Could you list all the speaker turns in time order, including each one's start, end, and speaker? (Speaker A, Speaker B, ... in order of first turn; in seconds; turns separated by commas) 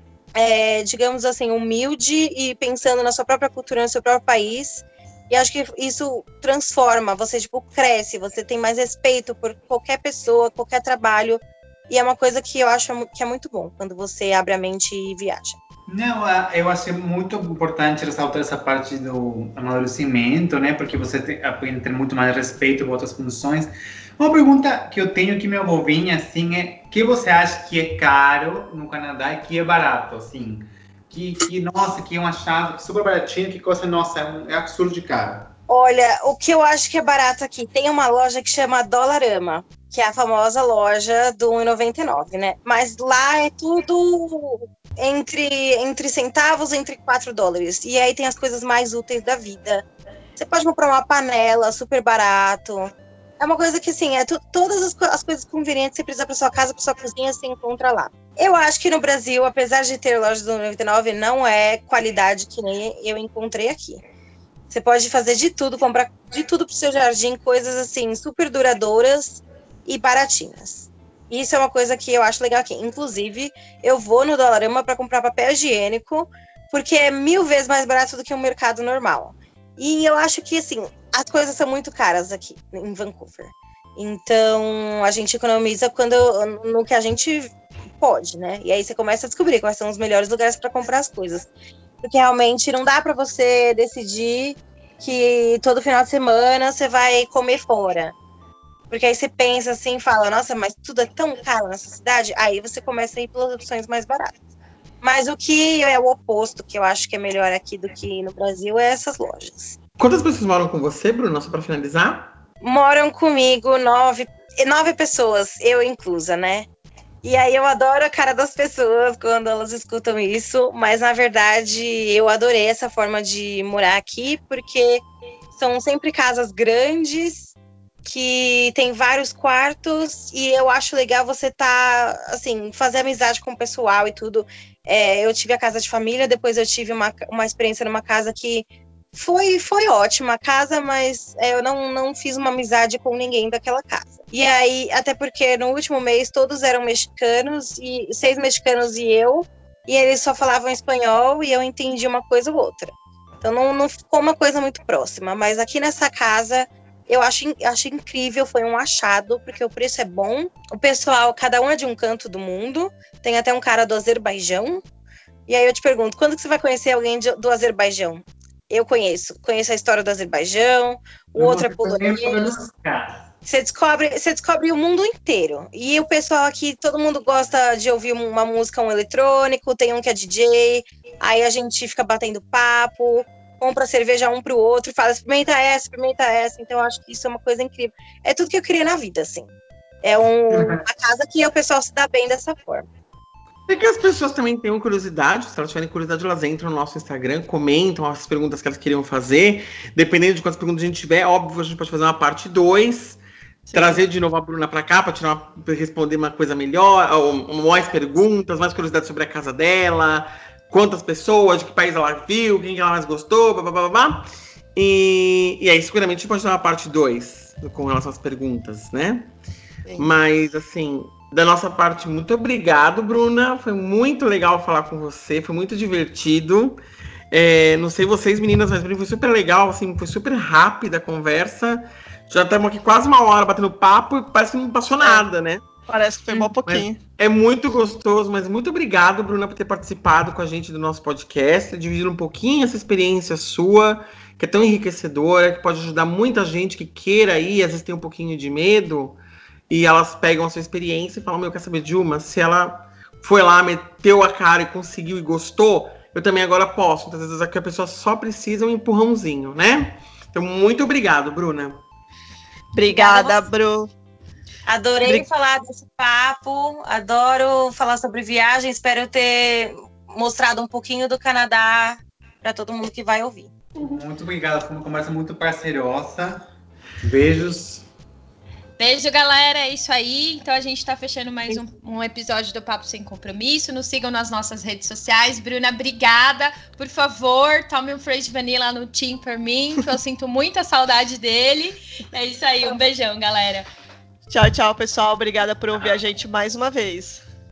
Speaker A: 0.4-15.6, Speaker B: 15.9-35.5, Speaker A: 35.7-49.9, Speaker A: 50.4-64.0, Speaker A: 64.7-91.5, Speaker A: 92.0-98.2, Speaker A: 98.9-104.3, Speaker A: 105.0-109.8, Speaker C: 110.0-112.3, Speaker A: 112.6-116.7, Speaker A: 117.2-125.0, Speaker A: 125.5-127.5, Speaker A: 128.0-164.8, Speaker A: 165.5-172.6, Speaker B: 171.4-173.2, Speaker A: 173.4-189.5, Speaker A: 190.0-192.9, Speaker C: 193.7-203.2, Speaker D: 203.7-204.0, Speaker C: 203.7-219.3, Speaker C: 220.0-226.8, Speaker C: 227.3-235.6, Speaker D: 235.0-235.3, Speaker D: 235.9-237.0, Speaker C: 236.3-261.8, Speaker D: 262.7-263.9, Speaker A: 262.9-263.4, Speaker A: 264.7-273.5, Speaker B: 273.8-276.4, Speaker B: 277.0-277.8, Speaker E: 278.8-293.7, Speaker D: 294.3-297.2